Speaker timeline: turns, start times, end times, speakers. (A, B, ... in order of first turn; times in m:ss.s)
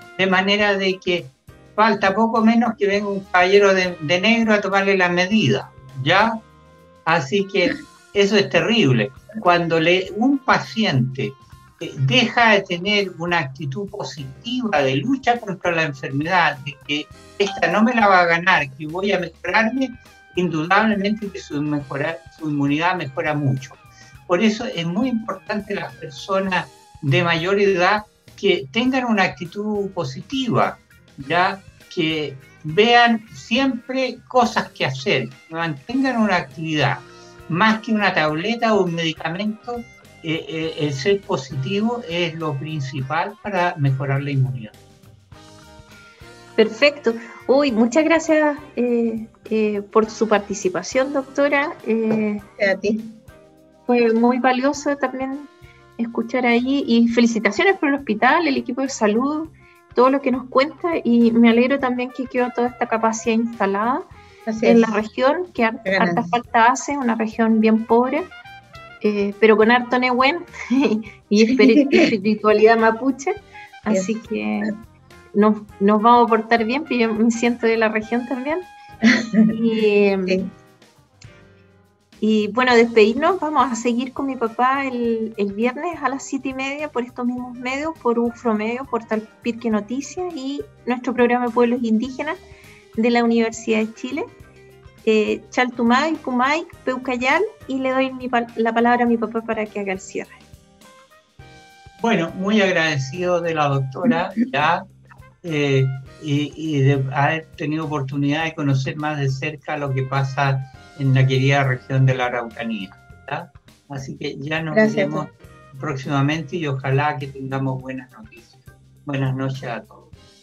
0:00.2-0:06.4 A
0:07.0-0:44.7 A
0:46.6-0:52.4 B
0:52.6-0:53.1 C
0:53.9-1:04.1 B
1:04.5-1:05.0 C
1:04.6-1:08.3 B
1:05.8-1:06.4 C
1:09.0-1:14.7 B
1:11.5-1:12.1 C
1:13.9-1:14.7 C
1:15.3-1:18.7 B
1:19.0-1:19.5 C
1:19.5-1:20.4 B
1:22.2-1:32.4 B
1:33.0-1:34.3 B
1:35.0-1:40.4 B
1:42.0-1:44.9 A
1:45.4-2:00.1 A
1:54.7-1:55.3 C